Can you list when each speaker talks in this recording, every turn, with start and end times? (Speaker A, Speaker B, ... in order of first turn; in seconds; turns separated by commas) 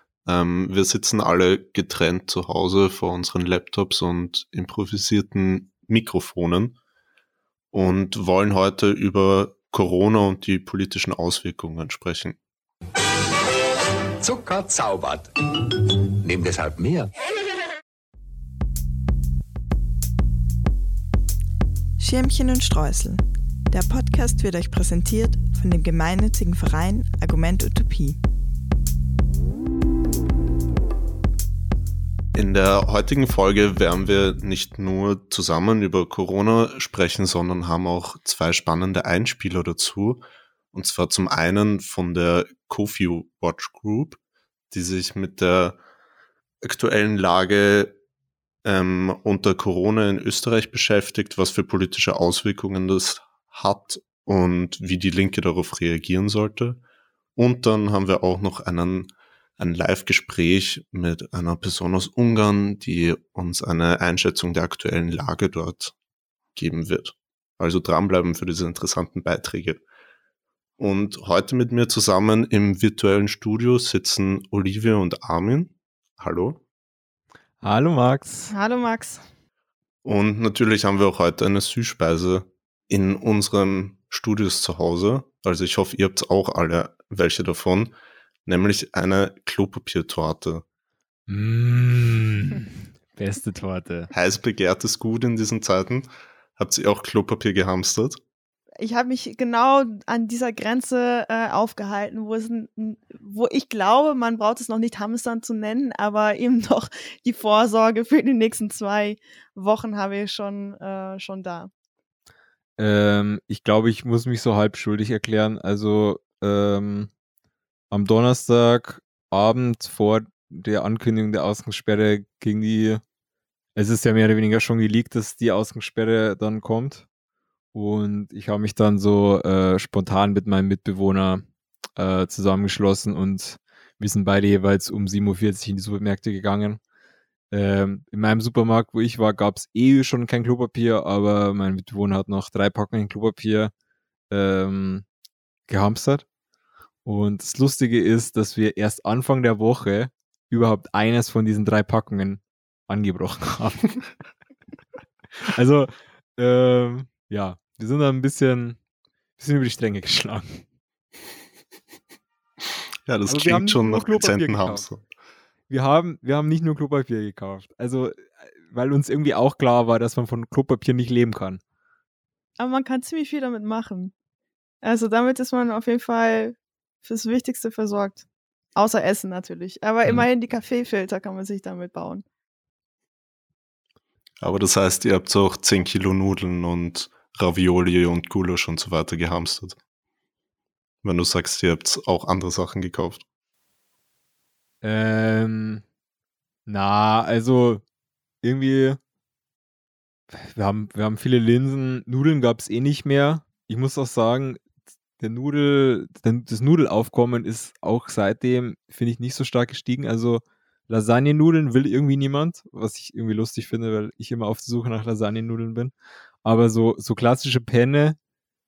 Speaker A: 0.2-6.8, Speaker A: 7.7-12.4, Speaker B: 14.2-15.3, Speaker B: 16.2-17.1, Speaker C: 22.0-28.2, Speaker A: 32.3-44.2, Speaker A: 44.7-45.8, Speaker A: 46.6-48.0, Speaker A: 48.6-56.8, Speaker A: 57.4-65.9, Speaker A: 66.5-69.8, Speaker A: 70.8-76.6, Speaker D: 77.6-78.5, Speaker E: 78.5-79.2, Speaker A: 80.0-87.9, Speaker A: 88.5-90.6, Speaker D: 91.3-94.1, Speaker A: 94.1-98.2, Speaker E: 98.8-111.7, Speaker D: 112.8-117.1, Speaker D: 117.9-123.0, Speaker D: 123.8-127.0, Speaker D: 127.7-136.8, Speaker D: 137.5-143.7, Speaker D: 144.3-145.1, Speaker D: 145.7-146.2, Speaker D: 147.1-154.0, Speaker D: 155.5-158.8, Speaker D: 159.4-160.6, Speaker A: 163.1-165.0, Speaker D: 163.3-164.9, Speaker D: 165.7-171.6, Speaker E: 172.6-174.1, Speaker E: 174.8-178.2, Speaker E: 178.8-182.2, Speaker A: 184.4-189.8, Speaker A: 191.0-193.2, Speaker D: 194.8-195.8, Speaker D: 196.7-197.8, Speaker D: 198.4-199.0, Speaker D: 200.3-204.6, Speaker D: 205.2-215.9, Speaker D: 216.4-218.2